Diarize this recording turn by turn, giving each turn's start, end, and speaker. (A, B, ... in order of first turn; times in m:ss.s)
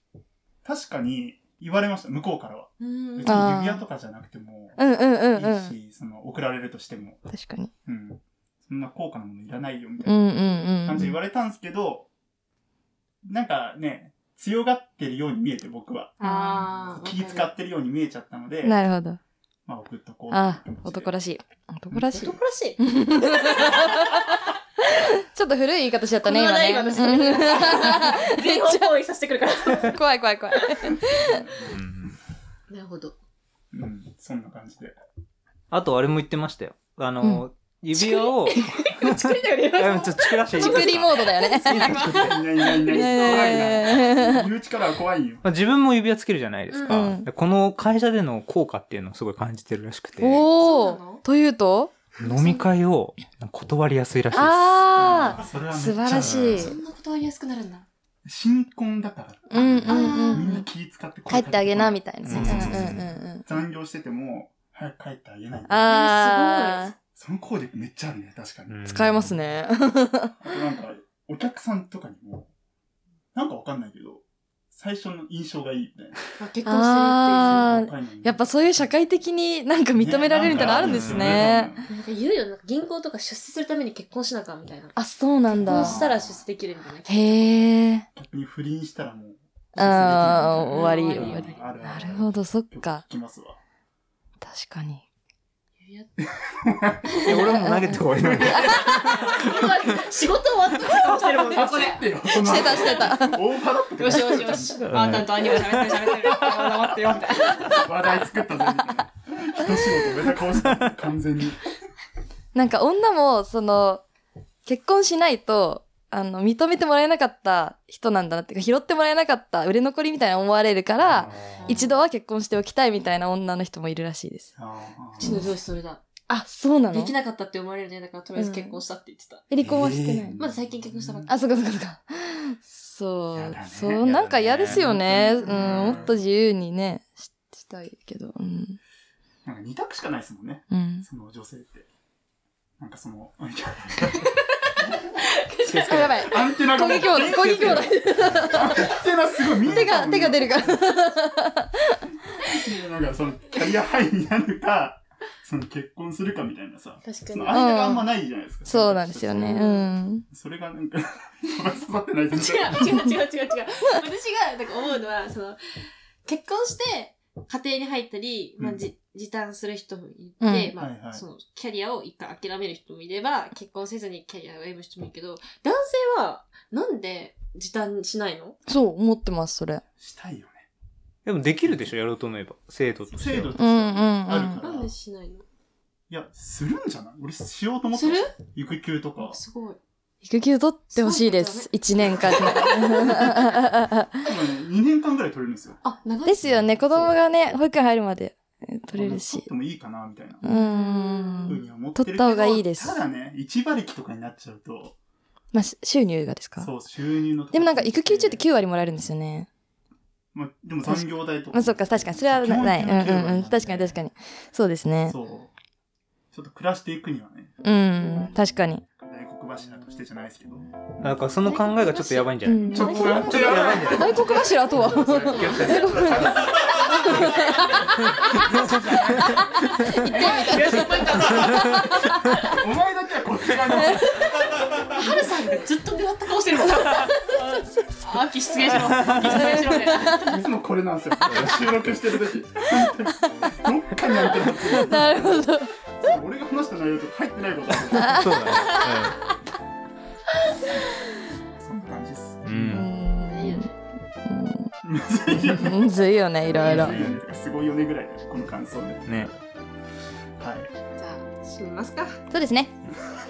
0:00.6-0:07.2 A
0:02.8-0:03.6 B
0:03.2-0:03.8 C
0:04.8-0:05.7 C
0:07.3-0:07.7 C
0:07.8-0:12.1 A
0:10.0-0:11.2 C
0:13.2-0:18.8 A
0:16.2-0:17.5 B
0:16.2-0:16.7 C
0:18.6-0:19.2 C
0:19.6-0:21.2 A
0:20.3-0:24.2 C
0:21.9-0:22.3 A
0:22.1-0:24.0 B
0:25.3-0:28.8 C
0:26.2-0:30.0 B
0:29.8-0:31.4 C
0:31.0-0:31.8 A
0:31.7-0:32.2 D
0:32.7-0:33.1 B
0:33.7-0:35.0 A
0:35.7-0:39.1 D
0:37.2-0:37.4 C
0:37.9-0:43.8 B
0:39.6-0:41.2 D
0:40.5-0:42.3 C
0:41.6-0:45.4 A
0:42.8-0:44.5 C
0:45.4-0:50.5 D
0:46.7-0:47.2 B
0:46.9-0:47.3 C
0:50.2-0:51.9 C
0:50.6-0:51.2 B
0:52.2-0:52.7 B
0:52.2-0:55.1 D
0:54.3-0:56.8 C
0:54.9-0:56.4 A
0:56.1-0:56.7 D
0:56.5-0:57.9 B
0:58.2-1:06.1 A
0:59.5-1:00.6 C
0:59.8-1:00.7 B
1:01.2-1:03.5 C
1:02.2-1:03.0 D
1:05.7-1:06.9 C
1:05.8-1:06.9 B
1:07.1-1:08.9 A
1:08.7-1:09.4 D
1:08.8-1:10.4 C
1:10.4-1:12.5 A
1:13.3-1:16.2 A
1:16.4-1:17.8 B
1:16.6-1:21.7 C
1:17.4-1:19.1 A
1:19.9-1:21.9 A
1:20.8-1:21.3 D
1:21.9-1:25.0 B
1:24.9-1:26.0 C
1:25.5-1:26.4 A
1:25.6-1:27.6 B
1:27.1-1:28.0 C
1:28.1-1:33.6 A
1:29.7-1:33.0 C
1:30.6-1:31.7 B
1:34.4-1:35.0 C
1:35.8-1:36.1 B
1:36.2-1:40.0 A
1:37.2-1:39.0 D
1:37.4-1:39.2 C
1:38.5-1:43.2 B
1:40.8-1:45.3 A
1:41.6-1:43.4 C
1:44.0-1:47.9 B
1:44.8-1:45.9 D
1:46.0-1:51.7 A
1:52.5-1:54.0 C
1:54.6-2:04.5 C
2:01.0-2:01.6 A
2:01.5-2:01.9 B
2:04.5-2:05.5 A
2:05.2-2:05.5 C
2:05.2-2:06.0 B
2:06.3-2:07.1 C
2:06.9-2:09.4 B
2:08.4-2:08.8 C
2:09.5-2:10.4 C
2:09.6-2:10.4 D
2:10.4-2:11.3 B
2:10.4-2:11.3 A
2:11.2-2:18.8 C
2:13.3-2:16.2 A
2:14.0-2:14.9 D
2:15.4-2:16.0 B
2:19.4-2:21.9 A
2:20.7-2:21.0 C
2:22.8-2:25.2 A
2:24.6-2:26.1 B
2:25.6-2:26.3 D
2:25.7-2:32.1 C
2:26.2-2:31.0 A
2:27.3-2:28.5 D
2:29.7-2:30.0 D
2:32.4-2:43.1 A
2:37.0-2:37.6 B
2:37.5-2:38.1 C
2:38.6-2:40.2 C
2:39.4-2:39.9 B
2:42.3-2:45.6 B
2:46.2-2:58.6 B
2:48.6-2:48.9 A
2:50.4-2:50.8 C
2:50.8-2:51.2 A
2:58.7-2:59.8 C
3:00.0-3:00.7 A
3:01.2-3:03.5 D
3:01.4-3:02.0 A
3:03.1-3:04.9 A
3:03.5-3:04.6 C
3:04.6-3:05.4 B
3:06.1-3:09.4 A
3:07.9-3:08.3 B
3:09.2-3:09.8 B
3:10.2-3:14.2 C
3:10.9-3:13.4 B
3:12.2-3:13.3 A
3:14.2-3:15.8 A
3:15.8-3:17.1 B
3:16.2-3:19.5 C
3:18.9-3:20.4 A
3:20.4-3:23.0 C
3:20.4-3:21.6 B
3:21.4-3:24.9 A
3:25.5-3:26.8 C
3:26.6-3:28.4 A
3:27.5-3:29.5 C
3:30.3-3:34.0 A
3:30.8-3:35.2 C
3:35.0-3:35.5 A
3:36.3-3:38.4 A
3:37.6-3:38.8 C
3:39.0-3:41.3 A
3:41.0-3:47.3 D
3:41.9-3:43.8 B
3:42.4-3:52.4 C
3:42.7-3:47.6 A
3:45.4-3:45.8 B
3:46.7-3:48.8 B
3:48.2-3:51.3 A
3:49.6-3:52.4 B
3:52.4-3:55.0 A
3:53.7-3:54.2 C
3:54.9-4:00.3 B
3:56.8-3:57.6 C
3:58.8-3:59.6 D
3:59.1-4:00.3 C
4:00.1-4:08.8 A
4:01.3-4:01.7 D
4:04.3-4:05.8 C
4:07.9-4:09.0 C
4:08.0-4:09.2 D
4:11.5-4:12.9 A
4:12.4-4:12.9 D
4:12.7-4:13.7 C
4:13.2-4:13.7 B
4:14.2-4:14.7 C
4:14.8-4:15.8 A
4:15.3-4:17.0 C
4:16.5-4:19.4 A
4:16.5-4:17.0 B
4:20.4-4:20.7 A
4:20.9-4:22.2 B
4:22.3-4:22.8 C